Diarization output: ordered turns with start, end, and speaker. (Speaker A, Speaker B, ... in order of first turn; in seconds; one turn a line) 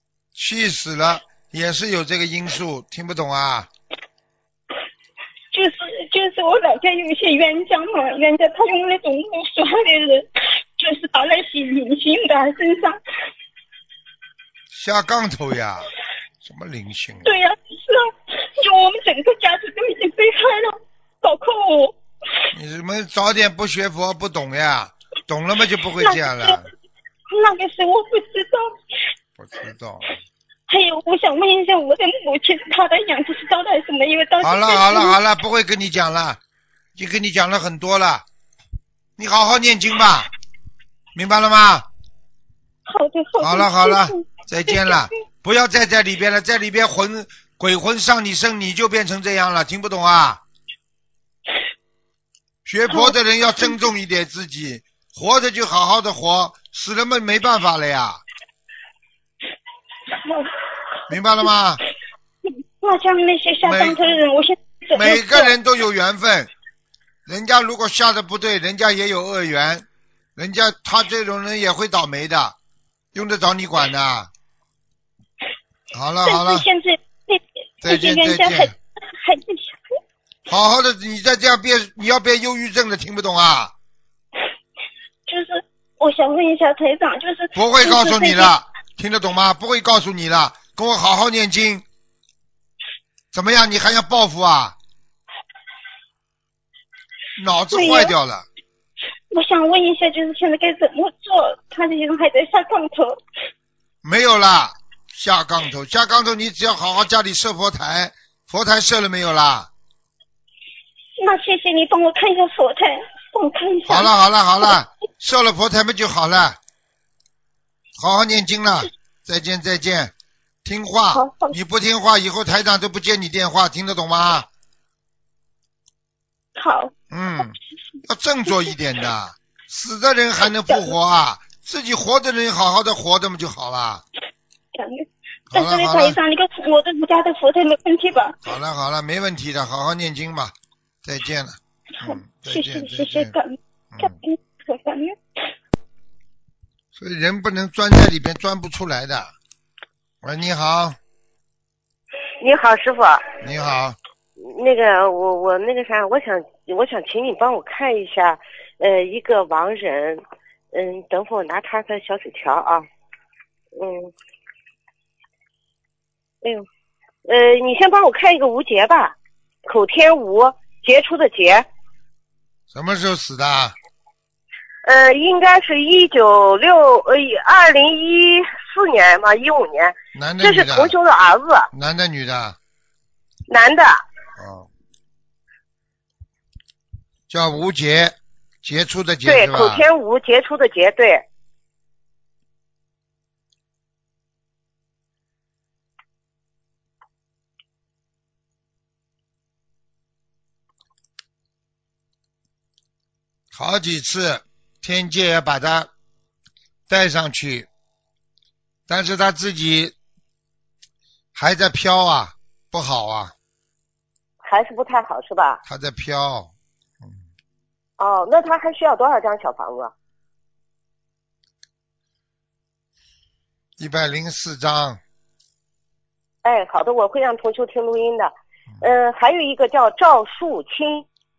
Speaker A: 0.3-3.7
Speaker B: 5.5-13.0
Speaker A: 14.7-15.9
Speaker A: 16.4-17.3
Speaker B: 17.2-22.0
Speaker A: 22.5-26.7
Speaker B: 26.0-26.6
Speaker B: 27.3-28.8
Speaker A: 29.4-30.2
Speaker B: 30.7-35.2
Speaker A: 34.4-36.4
Speaker A: 37.0-38.2
Speaker A: 39.2-40.3
Speaker A: 41.1-41.9
Speaker B: 42.9-45.1
Speaker A: 43.4-50.4
Speaker A: 52.6-58.2
Speaker B: 52.9-53.1
Speaker B: 60.2-60.5
Speaker A: 61.1-61.8
Speaker B: 62.5-65.5
Speaker A: 63.6-64.0
Speaker A: 64.9-66.5
Speaker A: 67.3-72.6
Speaker A: 73.1-74.3
Speaker A: 75.9-76.7
Speaker B: 76.2-79.8
Speaker A: 77.8-78.8
Speaker A: 80.5-83.7
Speaker B: 85.3-88.5
Speaker A: 87.5-91.8
Speaker A: 93.3-94.8
Speaker A: 97.4-98.5
Speaker B: 97.7-98.1
Speaker B: 99.3-103.2
Speaker A: 104.0-109.7
Speaker B: 111.2-114.8
Speaker A: 113.9-116.6
Speaker A: 118.0-120.1
Speaker A: 120.6-124.5
Speaker B: 121.1-121.6
Speaker B: 126.6-126.9
Speaker A: 127.1-134.0
Speaker B: 134.7-138.4
Speaker A: 135.5-136.2
Speaker A: 138.4-143.3
Speaker B: 142.0-145.2
Speaker A: 143.9-144.2
Speaker A: 146.9-149.3
Speaker A: 150.2-151.0
Speaker C: 152.4-153.3
Speaker A: 153.4-154.0
Speaker C: 154.4-162.9
Speaker C: 163.8-164.1
Speaker C: 167.3-171.7
Speaker A: 172.7-173.7
Speaker C: 174.8-181.7
Speaker A: 180.2-181.0
Speaker A: 181.7-182.6
Speaker C: 183.5-184.0
Speaker A: 184.4-184.7
Speaker A: 187.3-189.9
Speaker C: 189.3-191.2
Speaker A: 203.5-205.9
Speaker A: 206.9-207.7
Speaker A: 208.9-209.9
Speaker A: 211.3-213.3
Speaker C: 214.4-215.6
Speaker A: 215.7-217.2
Speaker C: 218.0-219.9
Speaker A: 223.8-225.0
Speaker C: 226.4-231.1